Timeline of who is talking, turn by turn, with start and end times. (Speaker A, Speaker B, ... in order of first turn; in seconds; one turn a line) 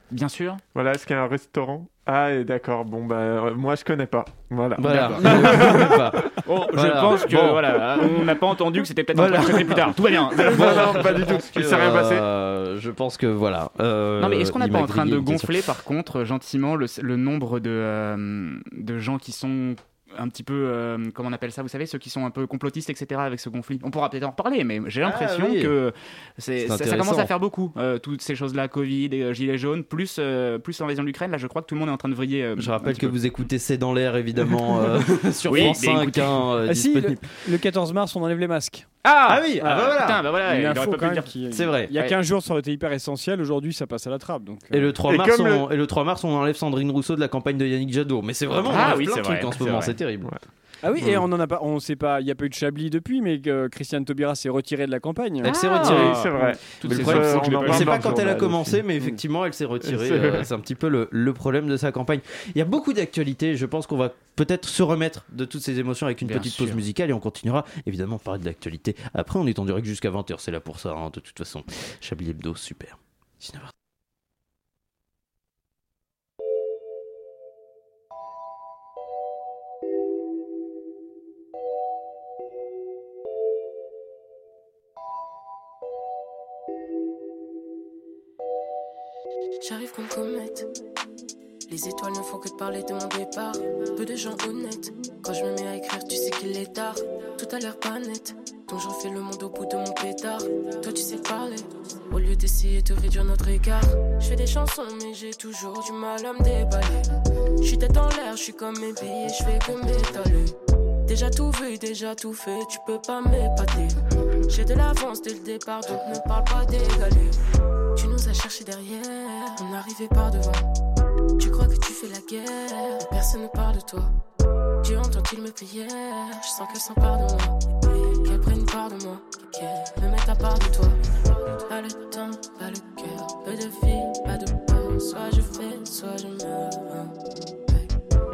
Speaker A: 0.1-0.6
Speaker B: 0.8-6.0
Speaker C: 4.8-8.0
Speaker A: 4.9-5.8
Speaker A: 6.4-11.3
Speaker C: 9.1-9.9
Speaker B: 10.3-12.2
Speaker C: 10.5-15.7
Speaker A: 14.2-33.2
Speaker C: 25.0-25.8
Speaker C: 26.6-27.3
Speaker C: 32.6-37.3
Speaker A: 35.5-36.4
Speaker D: 36.7-38.9
Speaker A: 39.0-41.3
Speaker C: 39.3-40.2
Speaker D: 39.6-44.9
Speaker C: 41.5-41.9
Speaker C: 44.7-50.3
Speaker B: 45.1-45.6
Speaker A: 48.7-50.0
Speaker D: 50.8-57.9
Speaker C: 55.4-56.3
Speaker A: 55.5-57.9
Speaker B: 55.5-58.8
Speaker C: 56.8-73.7
Speaker B: 59.9-60.5
Speaker A: 66.3-66.8
Speaker E: 89.6-90.7
Speaker E: 91.7-110.5
Speaker E: 111.1-117.4
Speaker E: 118.0-120.7
Speaker E: 121.4-124.1
Speaker E: 124.8-137.9